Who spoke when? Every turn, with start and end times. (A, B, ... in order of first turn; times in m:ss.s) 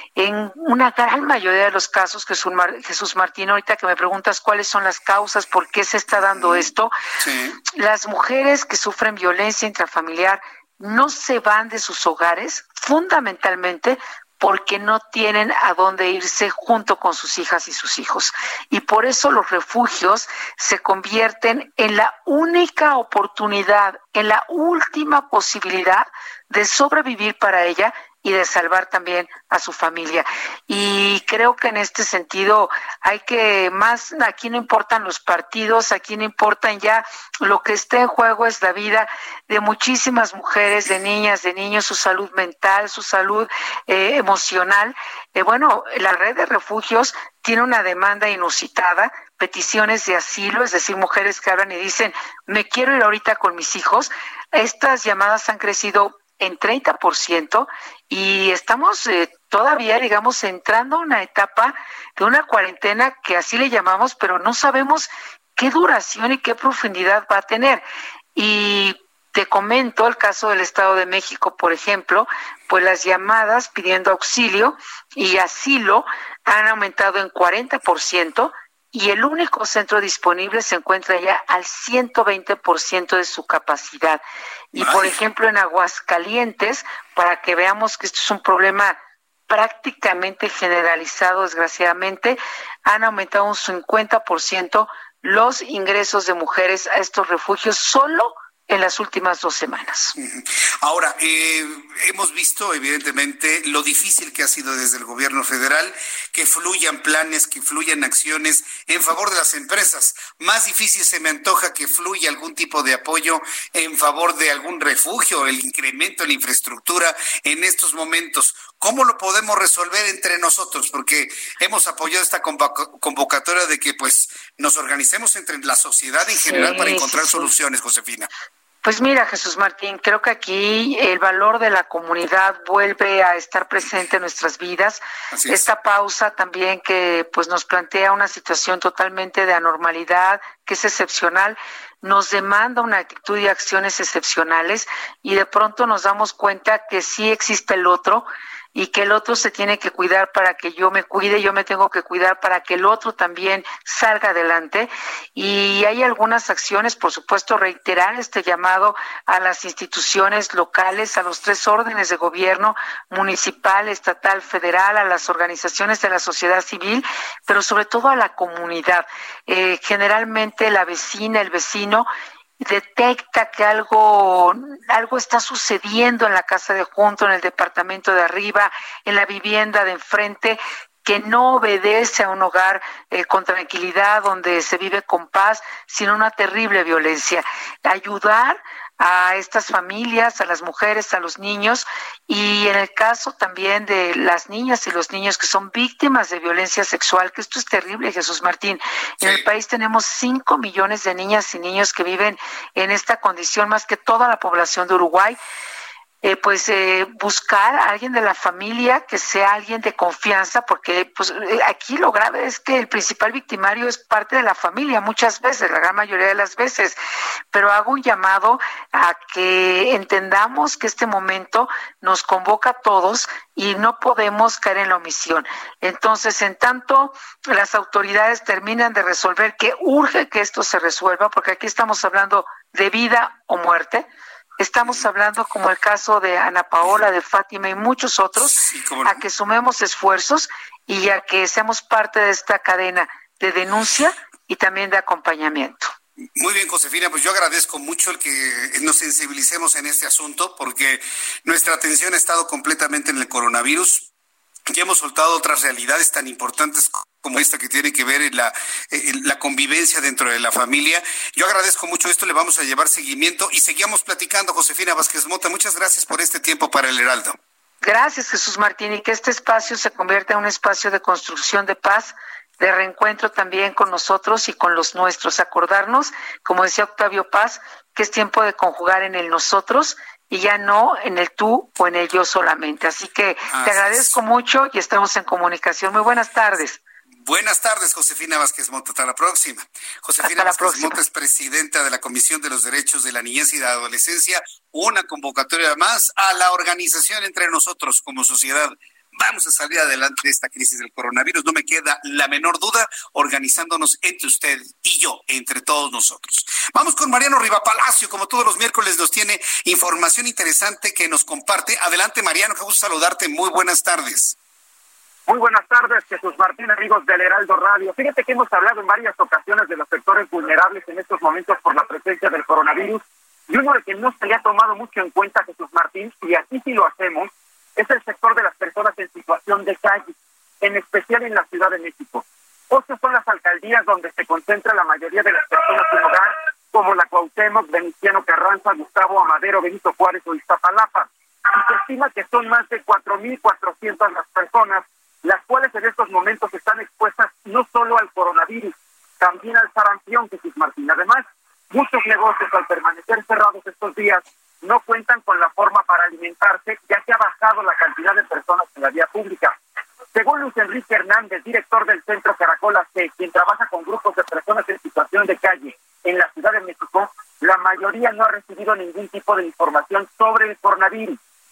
0:00.2-0:06.9 A
0:06.2-0:07.6 B
0:07.8-1:07.8 A
1:08.4-1:24.2 A
1:24.7-1:25.1 B
1:24.8-1:29.0 A
1:29.5-1:40.1 A
1:40.2-2:08.3 B
2:06.3-2:07.5 A
2:08.8-2:52.1 A
2:15.3-2:15.6 B
2:52.6-3:25.4 A
3:26.2-3:37.0 A
3:37.5-3:54.0 A
3:54.6-4:05.9 A
3:56.8-3:57.1 B
3:58.4-3:59.2 B
4:06.4-4:14.1 B
4:14.7-4:27.4 B
4:27.8-4:46.8 A
4:43.5-4:44.2 B
4:47.2-5:14.3 B
4:50.2-4:51.0 A
5:15.3-5:59.6 C
6:00.1-6:11.2 C